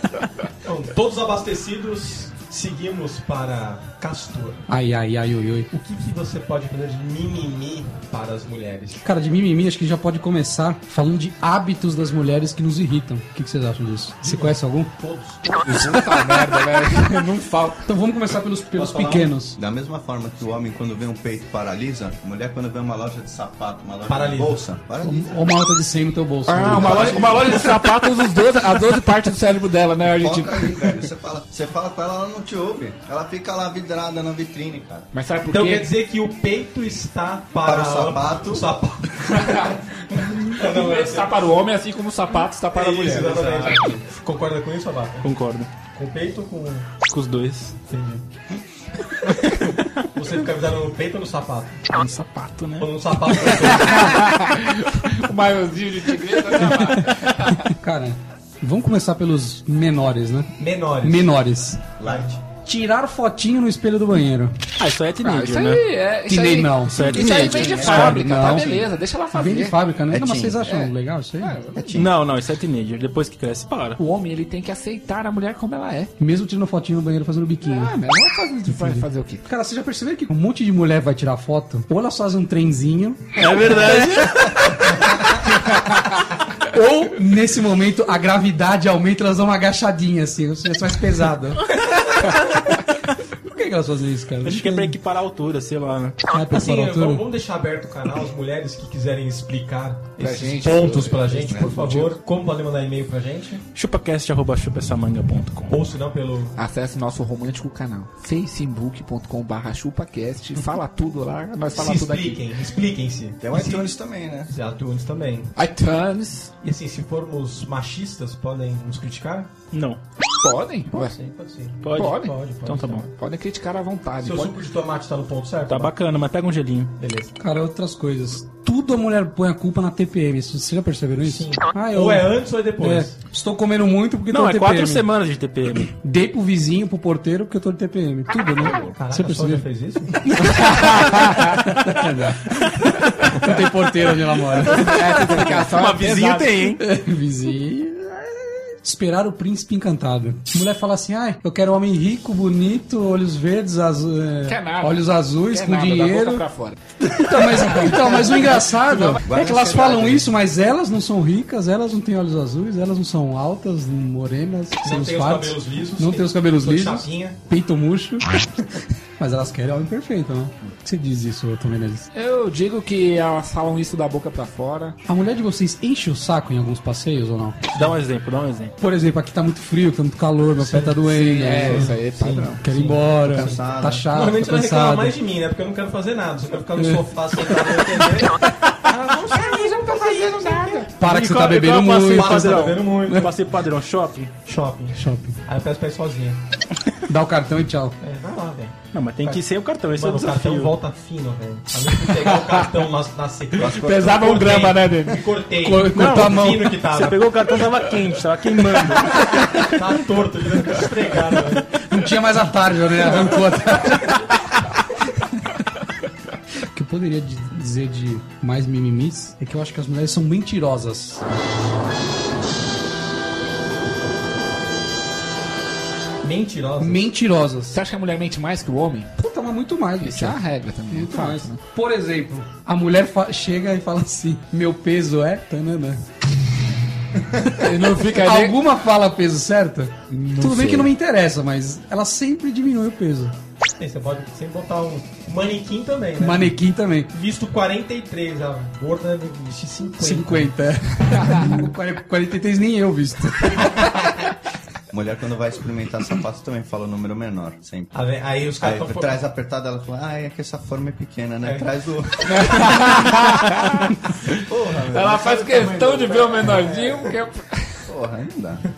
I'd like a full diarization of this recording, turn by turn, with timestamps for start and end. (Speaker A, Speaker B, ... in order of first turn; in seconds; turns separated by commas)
Speaker A: 0.6-4.6, Speaker B: 4.7-5.7, Speaker A: 5.7-9.0, Speaker B: 9.0-14.9, Speaker A: 14.2-15.8, Speaker C: 15.6-17.9, Speaker B: 17.9-19.6, Speaker A: 18.8-19.3, Speaker D: 18.8-25.5, Speaker A: 24.1-24.6, Speaker B: 25.0-27.3, Speaker C: 26.5-31.1, Speaker D: 26.6-27.6, Speaker A: 26.8-27.4, Speaker D: 30.1-35.1, Speaker C: 35.1-35.9, Speaker A: 35.5-41.4, Speaker D: 37.6-38.7, Speaker C: 39.3-43.9, Speaker A: 42.7-45.2, Speaker E: 45.2-45.7, Speaker A: 45.9-46.9, Speaker E: 47.0-47.8, Speaker A: 47.9-48.2, Speaker A: 50.1-51.9, Speaker E: 51.9-52.9, Speaker A: 52.8-54.2, Speaker C: 53.6-57.7, Speaker B: 56.8-60.5, Speaker A: 60.6-61.3, Speaker B: 61.0-61.8, Speaker D: 62.0-62.4, Speaker B: 62.6-64.5, Speaker E: 64.8-65.8, Speaker C: 65.2-69.8, Speaker B: 66.3-71.6, Speaker E: 66.9-68.2, Speaker D: 67.4-68.8, Speaker D: 70.1-70.6, Speaker C: 70.6-72.0, Speaker D: 71.7-72.1, Speaker E: 71.9-74.0, Speaker C: 74.0-76.1, Speaker B: 76.2-77.9, Speaker C: 77.7-79.5, Speaker B: 78.7-85.4, Speaker E: 83.3-84.4, Speaker B: 86.6-91.7, Speaker B: 93.4-95.0, Speaker E: 94.4-96.2, Speaker B: 96.3-97.2, Speaker A: 96.5-103.6, Speaker C: 100.2-102.2, Speaker E: 103.7-105.8, Speaker A: 105.7-106.5, Speaker C: 106.6-112.4, Speaker A: 111.7-113.9, Speaker D: 113.4-114.5, Speaker A: 114.5-115.5, Speaker C: 115.5-116.5, Speaker A: 116.6-119.5, Speaker E: 119.7-120.0, Speaker C: 120.4-121.1, Speaker A: 120.9-123.1, Speaker E: 121.8-123.1, Speaker C: 121.9-122.3, Speaker C: 123.0-124.6, Speaker A: 124.2-125.9, Speaker E: 125.7-126.9, Speaker A: 127.0-127.3, Speaker B: 127.4-135.1, Speaker A: 131.2-133.1, Speaker E: 134.3-135.9, Speaker B: 136.0-139.7, Speaker D: 138.7-138.9, Speaker A: 138.9-140.2, Speaker B: 140.3-140.9, Speaker C: 140.4-141.7, Speaker B: 141.6-145.1, Speaker C: 144.7-146.7, Speaker E: 145.3-146.8, Speaker B: 146.8-156.4, Speaker C: 154.4-156.8, Speaker B: 157.0-168.4, Speaker C: 157.5-159.8, Speaker D: 159.2-160.3, Speaker A: 164.8-167.4, Speaker B: 169.2-172.1, Speaker C: 172.1-175.0, Speaker B: 175.1-177.8, Speaker E: 177.7-178.7, Speaker B: 178.8-181.9, Speaker A: 180.6-181.0, Speaker C: 181.0-182.6, Speaker A: 181.6-190.9, Speaker B: 182.6-185.2, Speaker D: 183.2-184.1, Speaker C: 189.2-190.9, Speaker B: 191.0-193.2, Speaker E: 191.0-194.3, Speaker A: 192.1-193.3, Speaker A: 194.4-196.4, Speaker B: 194.9-195.4, Speaker B: 197.1-198.0, Speaker A: 198.0-207.3, Speaker E: 198.9-200.7, Speaker C: 202.1-202.7, Speaker D: 203.6-204.3, Speaker C: 203.6-205.2, Speaker B: 205.6-206.8, Speaker E: 205.9-209.7, Speaker A: 209.6-211.7, Speaker B: 211.9-214.2, Speaker B: 216.6-221.2, Speaker A: 226.2-227.1, Speaker B: 226.8-227.8, Speaker C: 227.7-229.1, Speaker B: 229.2-230.4, Speaker C: 230.0-231.6, Speaker B: 230.9-236.0, Speaker B: 237.3-243.3, Speaker C: 237.4-238.6, Speaker C: 240.2-240.8, Speaker A: 243.8-246.6, Speaker B: 246.2-247.1, Speaker A: 247.1-250.5, Speaker B: 250.0-253.8, Speaker D: 254.9-257.9, Speaker A: 257.9-259.1, Speaker D: 258.6-262.9, Speaker A: 261.4-261.7, Speaker C: 262.2-267.9, Speaker D: 264.2-266.8, Speaker A: 265.8-266.7, Speaker D: 267.9-268.6